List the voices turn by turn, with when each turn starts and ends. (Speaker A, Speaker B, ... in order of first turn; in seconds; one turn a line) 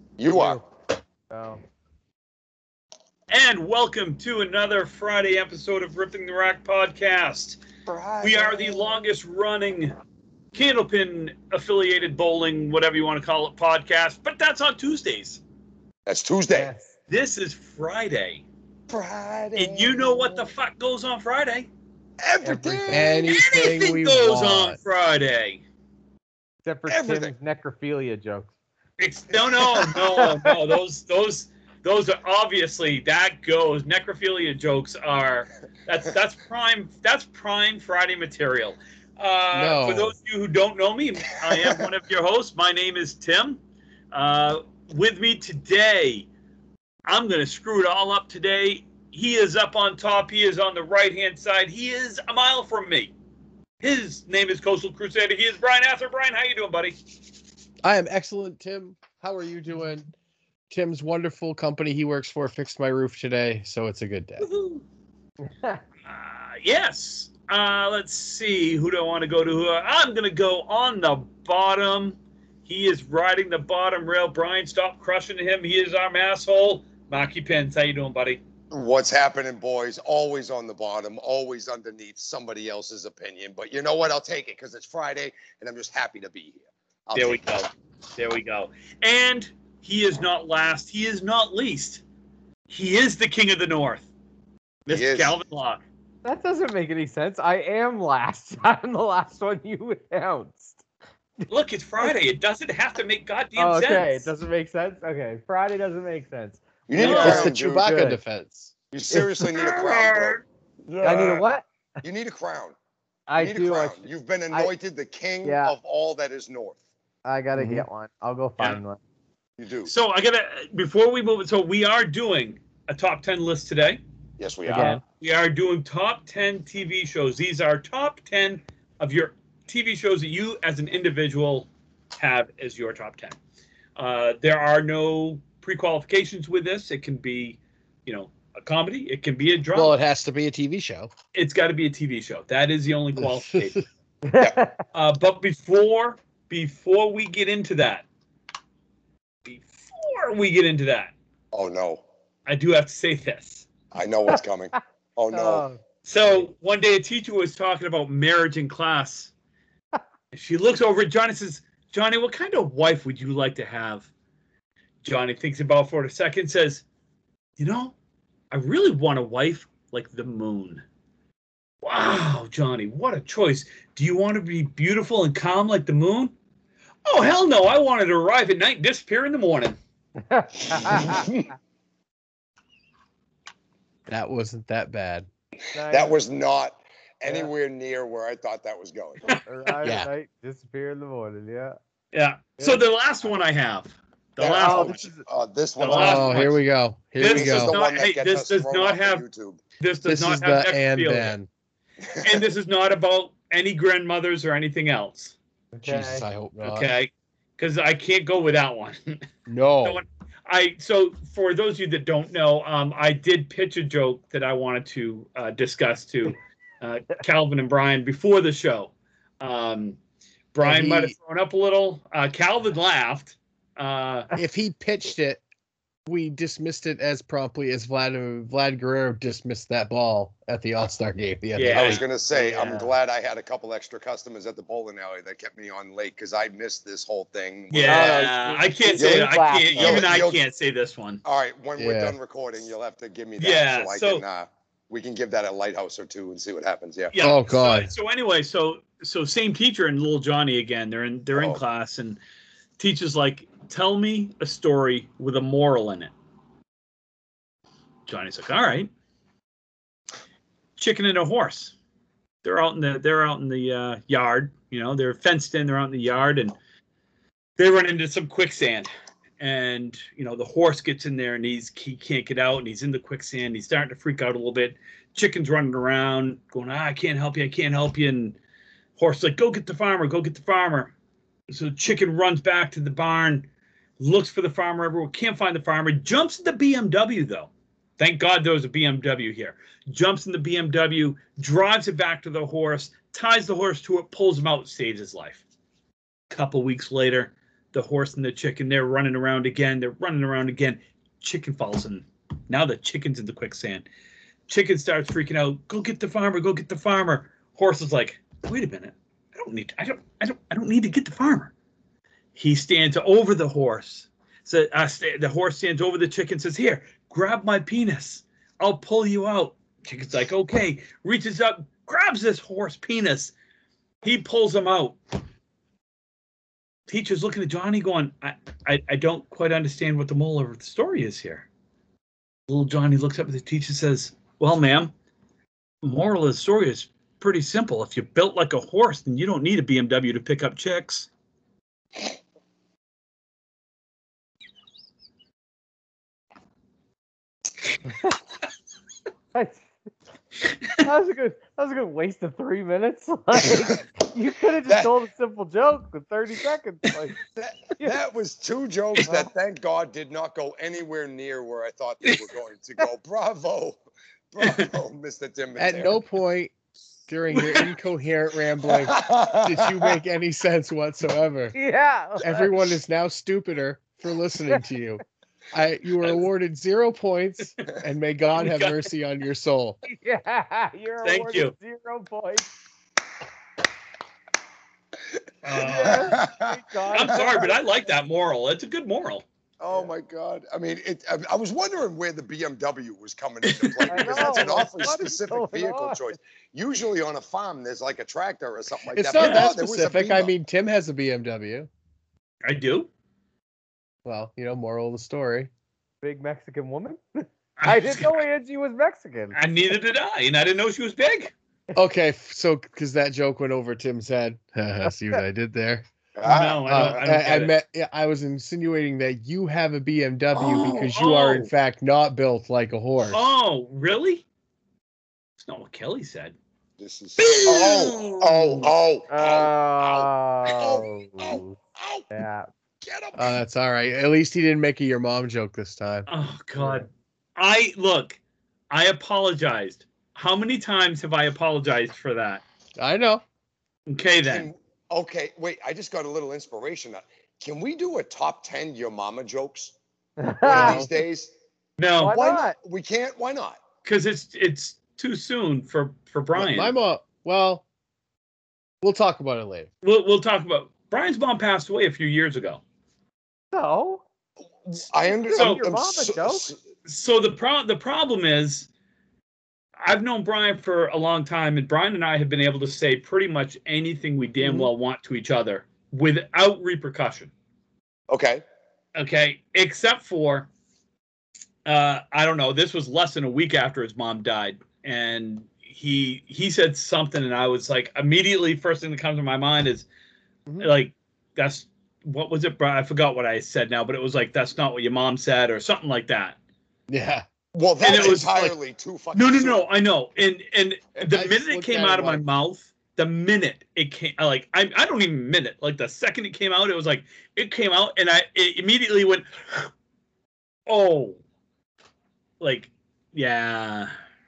Speaker A: 0.2-0.6
Speaker B: 0.3-0.6
Speaker B: 1.3-1.6
Speaker C: 3.3-7.6
Speaker A: 7.9-9.0
Speaker C: 8.2-9.9
Speaker C: 10.5-15.4
Speaker A: 16.1-16.7
Speaker B: 16.5-16.9
Speaker C: 17.1-18.4
Speaker A: 18.9-20.5
Speaker C: 19.6-21.7
Speaker A: 22.2-23.3
Speaker B: 22.4-23.2
Speaker D: 22.9-24.8
Speaker C: 23.2-25.6
Speaker B: 26.6-28.5
Speaker A: 26.9-27.3
Speaker C: 29.0-43.6
Speaker A: 29.4-29.9
Speaker B: 30.1-30.6
Speaker D: 39.5-40.1
Speaker C: 44.1-46.3
Speaker C: 47.1-53.1
Speaker C: 53.8-57.0
Speaker D: 57.8-60.1
Speaker D: 60.7-64.5
Speaker C: 64.4-64.8
Speaker B: 65.5-65.8
Speaker C: 66.0-78.4
Speaker A: 78.7-87.4
Speaker C: 87.1-92.0
Speaker C: 92.7-94.1
Speaker C: 94.9-95.8
Speaker A: 94.9-95.3
Speaker B: 96.2-100.8
Speaker C: 101.5-104.3
Speaker B: 103.6-108.2
Speaker A: 106.9-107.9
Speaker C: 107.0-107.5
Speaker D: 107.1-108.7
Speaker A: 108.9-111.4
Speaker C: 109.5-110.4
Speaker B: 111.0-111.7
Speaker A: 112.0-112.8
Speaker B: 113.3-114.7
Speaker A: 113.4-116.8
Speaker B: 115.4-115.8
Speaker B: 117.2-119.0
Speaker D: 117.6-117.9
Speaker A: 119.6-119.9
Speaker C: 119.9-124.0
Speaker A: 124.4-125.0
Speaker B: 124.7-125.0
Speaker C: 124.7-133.3
Speaker C: 134.0-139.9
Speaker D: 139.7-141.1
Speaker C: 141.3-143.8
Speaker D: 143.2-143.8
Speaker B: 144.2-144.8
Speaker C: 144.9-148.1
Speaker C: 149.4-151.1
Speaker A: 151.5-152.0
Speaker C: 152.5-153.7
Speaker A: 153.9-155.7
Speaker B: 155.3-156.4
Speaker C: 156.1-159.3
Speaker C: 160.3-164.1
Speaker C: 165.0-166.8
Speaker C: 167.6-167.9
Speaker C: 168.5-170.8
Speaker C: 171.8-176.3
Speaker C: 177.1-179.8
Speaker B: 180.3-181.3
Speaker A: 180.7-181.5
Speaker D: 184.1-185.2
Speaker B: 185.7-186.2
Speaker A: 185.9-189.2
Speaker B: 187.2-187.5
Speaker C: 189.3-189.7
Speaker B: 189.4-191.8
Speaker D: 189.8-190.1
Speaker C: 192.1-195.1
Speaker A: 194.4-196.5
Speaker B: 194.5-195.2
Speaker C: 195.8-196.6
Speaker B: 195.9-196.2
Speaker D: 196.0-197.8
Speaker C: 197.2-199.2
Speaker A: 197.2-199.6
Speaker C: 199.8-201.3
Speaker D: 200.1-201.5
Speaker C: 202.2-205.3
Speaker B: 205.7-206.2
Speaker D: 205.8-206.9
Speaker C: 206.6-209.2
Speaker D: 209.5-210.0
Speaker C: 209.8-220.0
Speaker C: 220.5-224.3
Speaker D: 220.6-221.1
Speaker D: 224.3-225.4
Speaker D: 226.1-232.0
Speaker C: 231.6-232.1
Speaker A: 231.7-238.3
Speaker B: 232.3-232.9
Speaker C: 237.7-241.2
Speaker B: 237.8-240.1
Speaker A: 239.0-240.4
Speaker A: 241.2-247.1
Speaker D: 241.8-242.2
Speaker C: 243.4-244.2
Speaker C: 247.1-252.2
Speaker D: 247.2-247.9
Speaker A: 251.3-251.6
Speaker C: 252.8-256.1
Speaker C: 258.1-258.9
Speaker C: 260.8-261.7
Speaker C: 262.4-266.6
Speaker C: 267.6-268.9
Speaker C: 269.4-278.4
Speaker C: 279.0-280.9
Speaker C: 281.5-283.5
Speaker C: 284.0-295.4
Speaker C: 296.3-303.8
Speaker C: 304.5-311.5
Speaker C: 312.3-323.3
Speaker C: 324.0-325.0
Speaker C: 326.9-331.4
Speaker C: 332.5-334.9
Speaker C: 335.8-341.1
Speaker B: 349.3-349.7
Speaker B: 350.8-357.1
Speaker A: 354.6-354.9
Speaker A: 357.3-363.8
Speaker A: 364.3-366.0
Speaker C: 364.4-364.7
Speaker D: 365.6-366.5
Speaker D: 367.1-371.5
Speaker C: 367.3-367.6
Speaker A: 368.7-369.9
Speaker B: 371.5-372.4
Speaker D: 372.2-375.0
Speaker D: 375.5-379.8
Speaker C: 378.3-378.8
Speaker B: 379.8-382.5
Speaker C: 381.0-381.5
Speaker C: 385.4-386.2
Speaker B: 385.6-387.6
Speaker A: 385.8-387.3
Speaker C: 386.9-389.2
Speaker A: 389.6-400.3
Speaker C: 393.4-394.9
Speaker B: 393.9-396.0
Speaker D: 398.9-401.7
Speaker C: 399.1-399.5
Speaker C: 402.4-402.9
Speaker D: 404.0-405.5
Speaker B: 406.0-409.4
Speaker C: 407.6-408.2
Speaker C: 409.3-411.3
Speaker D: 411.8-415.8
Speaker A: 416.1-417.0
Speaker C: 416.2-417.5
Speaker D: 416.6-423.2
Speaker C: 420.3-421.5
Speaker C: 423.0-424.2
Speaker C: 425.4-426.3
Speaker A: 426.8-432.1
Speaker C: 427.2-428.7
Speaker B: 429.1-431.6
Speaker B: 432.1-432.5
Speaker A: 432.8-433.4
Speaker D: 433.1-436.1
Speaker C: 436.1-438.2
Speaker C: 438.7-442.4
Speaker D: 442.8-443.2
Speaker C: 443.9-444.5
Speaker A: 444.2-449.7
Speaker B: 450.2-450.9
Speaker A: 450.4-451.3
Speaker D: 450.5-450.9
Speaker C: 451.8-452.1
Speaker B: 452.0-452.6
Speaker A: 452.0-453.6
Speaker C: 453.8-456.7
Speaker D: 456.3-457.6
Speaker D: 458.8-459.7
Speaker C: 459.8-462.6
Speaker B: 463.5-464.0
Speaker A: 464.6-466.6
Speaker B: 465.2-466.5
Speaker C: 465.3-465.6
Speaker C: 466.9-468.7
Speaker C: 469.8-477.3
Speaker A: 478.1-478.4
Speaker C: 478.9-480.5
Speaker C: 481.6-489.9
Speaker C: 490.6-496.4
Speaker D: 496.9-497.2
Speaker A: 497.5-499.6
Speaker C: 497.8-498.5
Speaker D: 497.9-498.4
Speaker C: 499.1-509.7
Speaker D: 501.0-502.2
Speaker C: 510.7-511.2
Speaker C: 512.4-513.9